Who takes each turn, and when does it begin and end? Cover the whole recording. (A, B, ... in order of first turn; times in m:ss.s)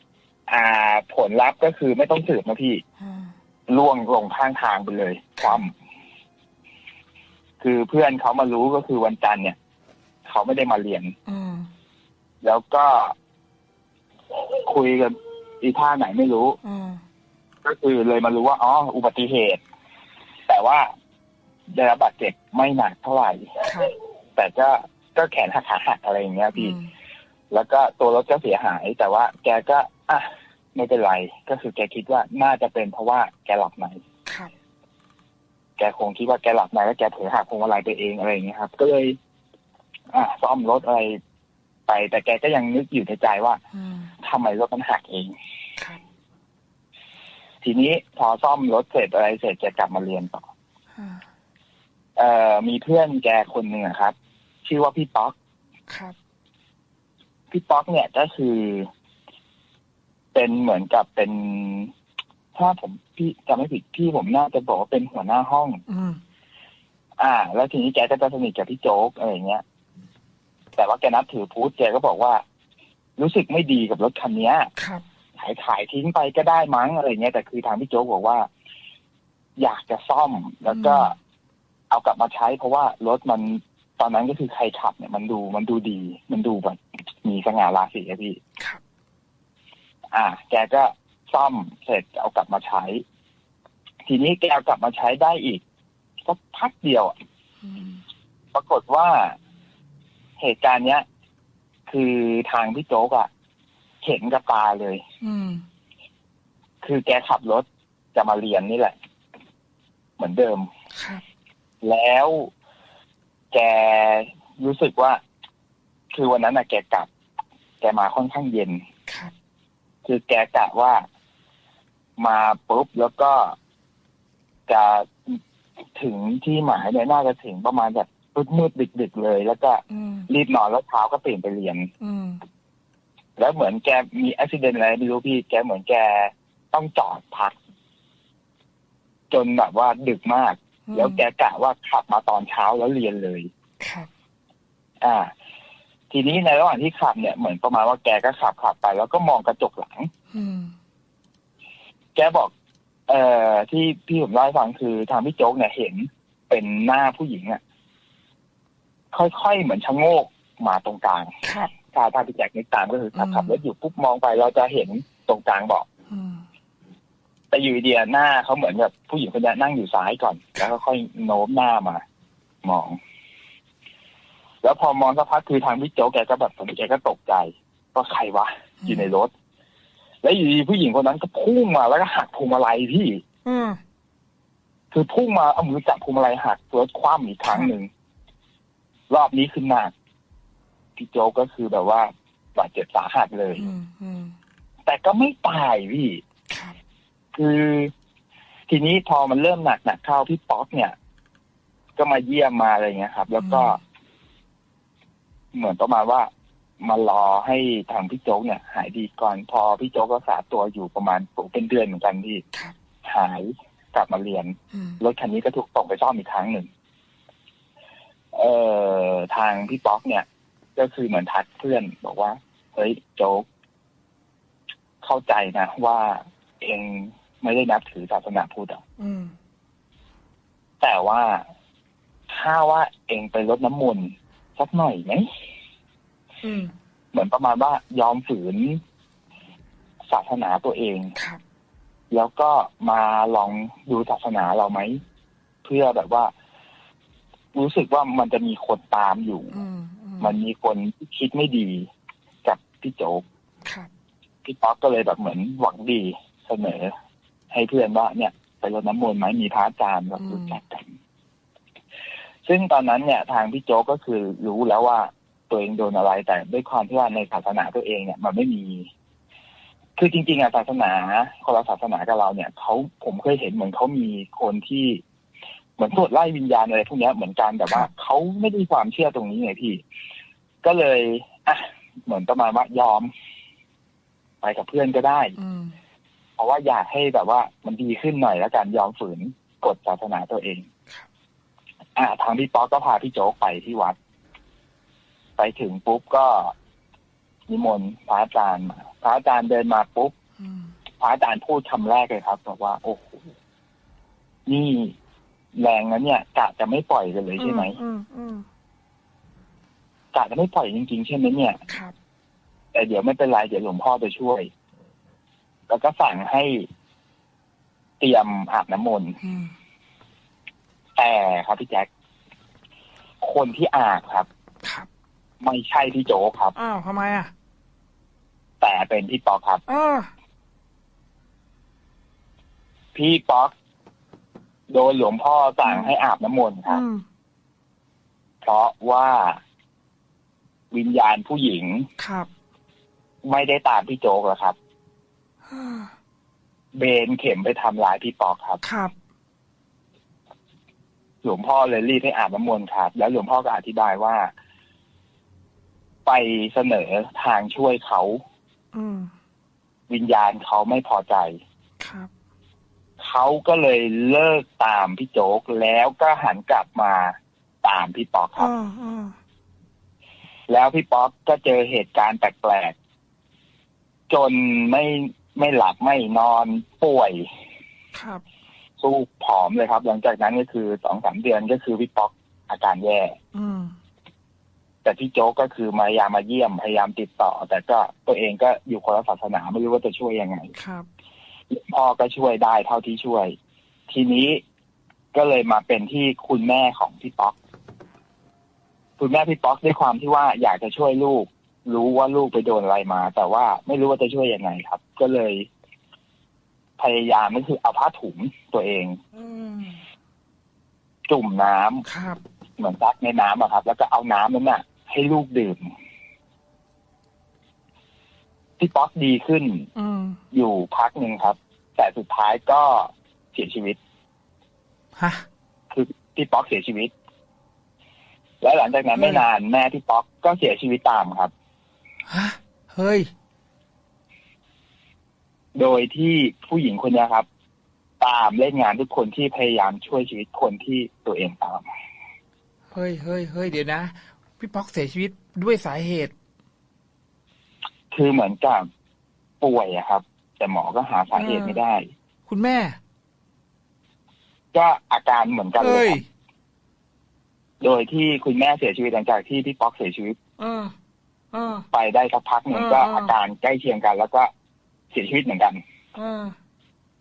0:00.5-0:02.8 A
0:03.0-0:03.3 B
0:03.7-0:05.7 A
0:05.4-0:05.6 B
0:07.6-0:09.6 A
0:10.2-0:11.2 A
0:11.3-0:11.7 B
0:12.4-0:13.2 A
0:14.3-0:16.6 A
0:16.6-0:17.0 B
0:17.6-0:19.6 A
0:20.5-0:20.9 A
0:21.7-0:26.8 A
0:23.6-0:23.9 B
0:26.5-0:26.9 B
0:27.5-0:34.0 A
0:34.2-0:34.5 B
0:35.8-0:39.2 A
0:40.1-0:41.2 A
0:41.9-0:43.6 A
0:43.7-0:44.1 B
0:44.2-0:45.3 A
0:47.6-0:50.5 A
0:50.9-0:51.2 B
0:52.2-0:55.3 A
0:55.9-0:56.1 B
0:57.5-0:58.9 A
1:00.3-1:01.9 A
1:02.5-1:05.8 A
1:05.9-1:06.2 B
1:07.2-1:09.6 A
1:10.8-1:12.4 A
1:13.2-1:14.7 A
1:14.8-1:15.0 B
1:15.4-1:18.5 A
1:19.6-1:21.2 A
1:20.7-1:21.1 B
1:21.9-1:28.4 A
1:30.1-1:33.0 A
1:34.0-1:35.6 A
1:36.2-1:37.1 A
1:37.6-1:38.0 B
1:38.5-1:39.4 A
1:40.4-1:41.0 A
1:41.9-1:43.3 A
1:44.0-1:45.0 A
1:45.2-1:45.6 B
1:46.8-1:48.9 A
1:50.2-1:50.7 A
1:50.9-1:51.2 B
1:51.8-1:52.5 A
1:53.5-1:55.2 A
1:56.1-1:57.1 A
1:57.8-1:58.8 A
1:59.1-1:59.3 B
2:00.0-2:01.0 A
2:02.2-2:03.6 A
2:04.7-2:05.4 A
2:05.9-2:11.9 A
2:09.9-2:10.3 B
2:12.0-2:12.4 B
2:13.4-2:17.6 A
2:19.3-2:23.5 A
2:20.9-2:21.2 B
2:23.8-2:24.1 B
2:25.0-2:25.3 A
2:26.1-2:30.1 A
2:30.3-2:30.7 B
2:32.1-2:32.5 A
2:33.1-2:37.6 A
2:39.1-2:41.3 A
2:41.4-2:41.7 B
2:41.9-2:45.8 A
2:43.2-2:43.6 B
2:46.1-2:46.4 B
2:47.5-2:52.0 A
2:52.6-2:53.0 A
2:54.6-2:59.3 A
2:58.8-2:59.1 B
3:00.2-3:03.2 A
3:03.4-3:03.8 B
3:04.9-3:07.9 A
3:09.1-3:09.9 A
3:11.0-3:13.7 A
3:13.6-3:14.4 B
3:14.8-3:16.2 A
3:16.5-3:16.8 B
3:17.3-3:17.9 A
3:18.7-3:20.9 A
3:22.0-3:23.8 A
3:23.4-3:23.8 B
3:25.5-3:26.3 A
3:26.8-3:32.4 A
3:33.0-3:36.7 A
3:34.7-3:35.0 B
3:38.3-3:43.4 A
3:45.0-3:48.8 A
3:49.0-3:49.3 B
3:50.8-3:51.4 A
3:52.3-3:55.3 A
3:56.4-3:56.7 B
3:57.1-3:58.8 A
4:00.1-4:01.1 A
4:02.1-4:05.0 A
4:05.6-4:06.3 A
4:07.5-4:09.6 A
4:09.5-4:10.4 B
4:10.2-4:11.9 A
4:12.4-4:13.2 A
4:13.6-4:13.9 B
4:14.4-4:16.9 A
4:17.5-4:20.9 A
4:20.2-4:20.6 B
4:22.4-4:28.9 A
4:30.0-4:35.0 A
4:35.8-4:39.8 A
4:40.6-4:43.1 A
4:44.4-4:45.3 A
4:45.4-4:45.8 B
4:46.4-4:50.7 A
4:52.0-4:54.0 A
4:55.4-4:56.5 A
4:57.5-5:00.1 A
5:00.4-5:00.7 B
5:01.0-5:03.3 A
5:04.5-5:05.0 A
5:05.6-5:07.8 A
5:07.4-5:08.4 B
5:10.1-5:11.6 A
5:11.7-5:11.9 B
5:12.7-5:14.5 A
5:15.7-5:16.7 A
5:18.0-5:19.2 A
5:19.2-5:19.5 B
5:21.0-5:21.9 A
5:23.2-5:24.3 A
5:24.6-5:24.9 B
5:25.4-5:26.5 A
5:26.6-5:27.3 B
5:28.6-5:29.6 A
5:29.7-5:30.1 B
5:32.9-5:33.5 A
5:34.7-5:36.8 A
5:35.6-5:35.9 B
5:36.7-5:37.0 B
5:38.4-5:39.4 A
5:40.7-5:41.9 A
5:42.0-5:42.3 B
5:43.2-5:44.6 A
5:45.5-5:45.9 B
5:46.7-5:48.6 A
5:48.6-5:48.9 B
5:51.2-5:54.3 A
5:56.0-5:58.2 A
5:58.7-5:59.1 B
5:59.9-6:01.4 A
6:01.8-6:02.1 B
6:03.0-6:08.5 A
6:08.4-6:09.2 B
6:10.5-6:12.8 A
6:14.1-6:17.3 A
6:17.9-6:18.2 B
6:18.8-6:23.2 A
6:23.3-6:23.7 B
6:24.8-6:30.5 A
6:30.6-6:30.9 B
6:31.5-6:33.4 A
6:33.9-6:34.4 A
6:35.1-6:37.4 A
6:39.0-6:45.5 A
6:46.8-6:49.0 A
6:49.2-6:49.8 B
6:51.1-6:51.8 A
6:51.9-6:52.2 B
6:52.6-6:55.7 A
6:58.6-6:59.7 A
6:59.8-7:00.2 B
7:00.3-7:03.8 A
7:05.0-7:05.2 B
7:05.7-7:06.9 A
7:08.4-7:11.3 A
7:08.9-7:09.2 B
7:12.1-7:13.1 B
7:15.6-7:17.2 A
7:18.0-7:21.6 A
7:22.7-7:26.1 B
7:27.9-7:28.6 A
7:29.4-7:31.9 A
7:31.1-7:31.6 B
7:32.3-7:32.8 B
7:34.5-7:36.0 A
7:35.6-7:36.0 B
7:37.6-7:40.2 A
7:40.4-7:40.7 B
7:41.3-7:41.6 B
7:41.7-7:44.3 A
7:42.5-7:43.1 B
7:44.9-7:45.6 A
7:45.9-7:46.4 B